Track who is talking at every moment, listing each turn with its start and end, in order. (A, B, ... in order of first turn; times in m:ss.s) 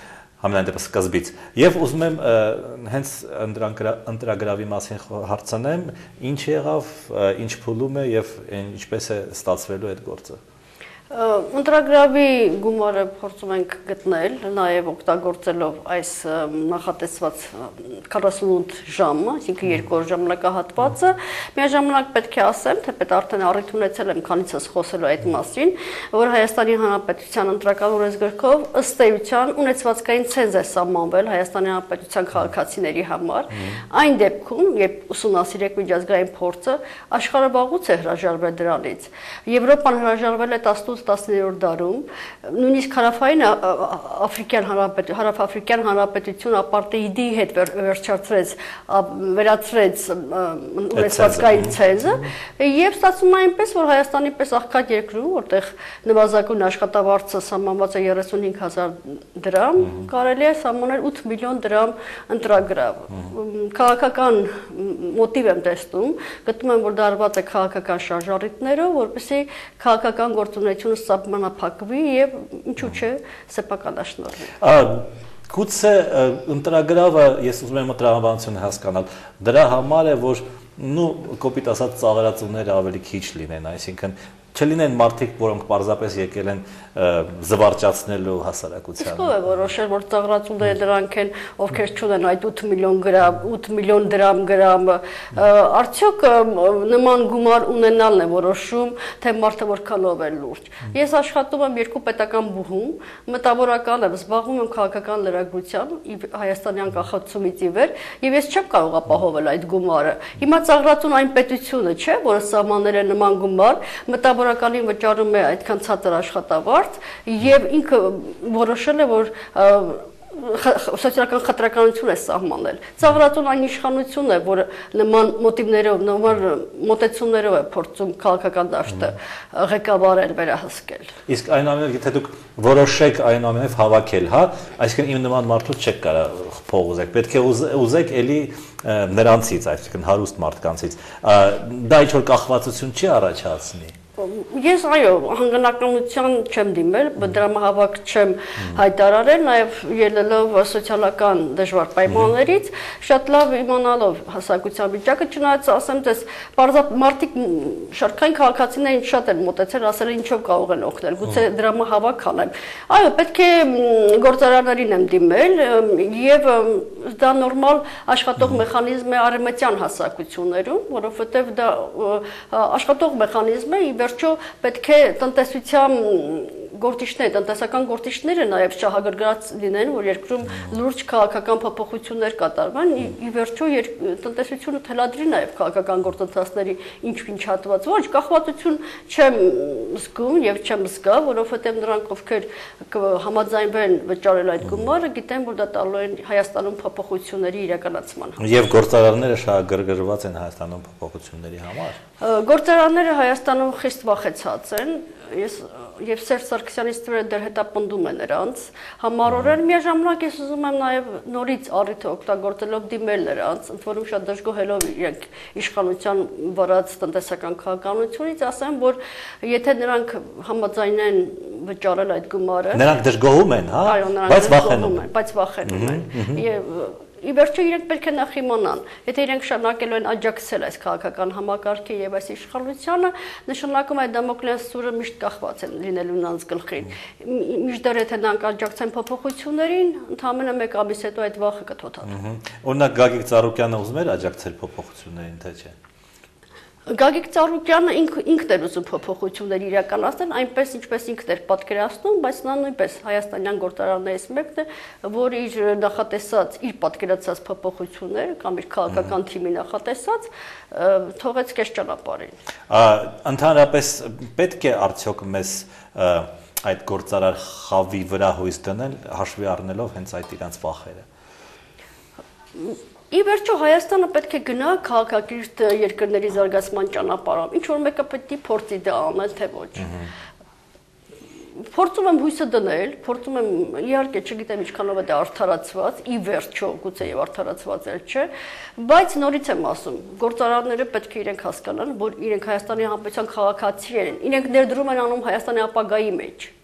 0:00.4-0:10.4 A
0:11.1-1:14.6 B
0:50.9-0:51.8 A
1:14.6-1:29.3 A
1:29.0-2:11.1 B
2:11.3-2:23.9 A
2:24.2-3:18.4 B
3:18.4-3:22.0 A
3:22.2-3:42.8 B
3:42.7-3:45.0 A
3:43.8-4:02.2 B
3:45.6-3:46.4 A
4:02.0-4:05.7 A
4:06.9-4:22.3 B
4:22.7-4:31.0 A
4:32.6-4:40.0 B
4:39.8-4:40.1 A
4:41.6-4:56.5 B